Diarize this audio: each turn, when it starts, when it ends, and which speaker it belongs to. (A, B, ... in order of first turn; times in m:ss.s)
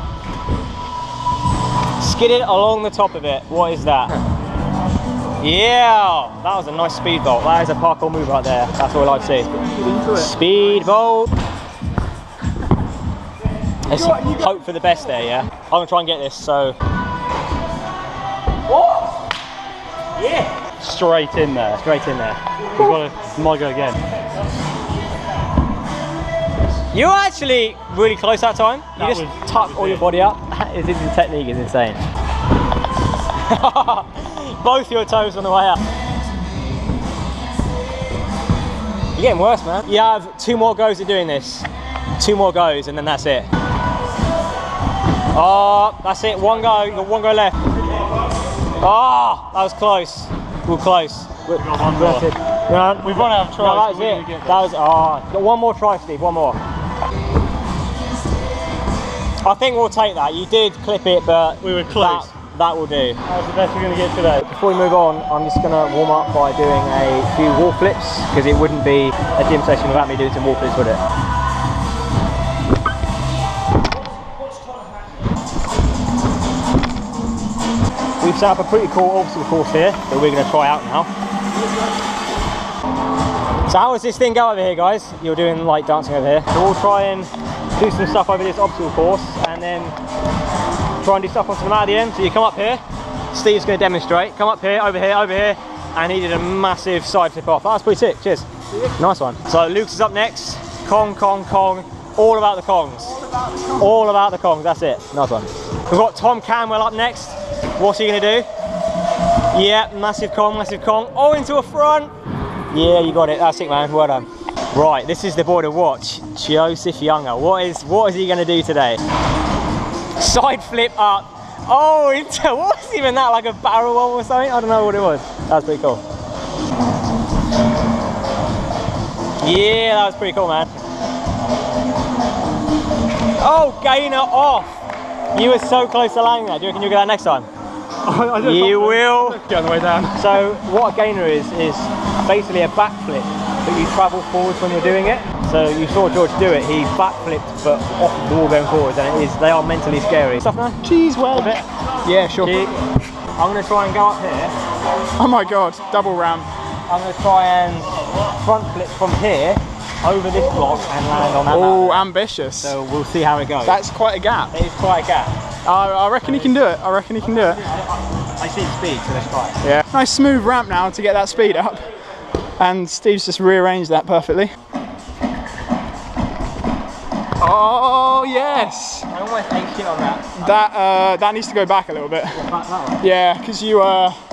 0:02.0-0:04.2 A
0:05.4-0:09.5 A
0:09.4-0:10.3 B
0:10.1-0:11.3 A
0:13.8-0:16.8 A
0:14.0-0:14.6 B
0:20.2-0:20.5 A
0:20.8-0:21.8 C
0:21.8-0:22.9 A
0:22.8-0:24.0 C
0:26.9-0:32.0 A
0:29.0-0:30.1 C
0:33.5-0:35.8 A
0:39.2-0:43.5 A
0:45.3-0:47.6 A
0:48.8-0:56.6 A
0:51.5-0:52.2 C
0:53.0-0:54.6 C
0:59.4-1:03.2 A
1:01.6-1:02.3 C
1:03.3-1:04.4 C
1:04.4-1:11.0 A
1:18.2-1:21.1 A
1:23.7-1:30.0 A
1:31.0-1:43.2 A
1:43.8-1:48.5 A
1:49.5-1:52.1 A
1:52.7-1:59.0 A
2:00.2-2:06.0 A
2:09.4-2:10.7 A
2:13.4-2:14.7 A
2:15.3-2:17.5 A
2:18.0-2:20.2 C
2:18.4-2:19.4 A
2:20.1-2:30.8 A
2:30.8-2:32.6 B
2:31.3-2:31.6 A
2:32.4-2:32.8 A
2:33.4-2:34.5 A
2:35.2-2:36.5 B
2:36.9-2:42.1 A
2:41.4-2:42.8 B
2:42.6-2:43.8 A
2:43.6-2:44.5 B
2:44.5-2:45.3 A
2:45.6-2:47.6 B
2:47.2-2:49.6 A
2:49.6-2:51.9 B
2:52.6-2:54.5 B
2:57.4-2:59.1 B
2:59.1-3:00.6 A
3:00.4-3:02.4 B
3:02.3-3:03.0 A
3:03.0-3:04.2 B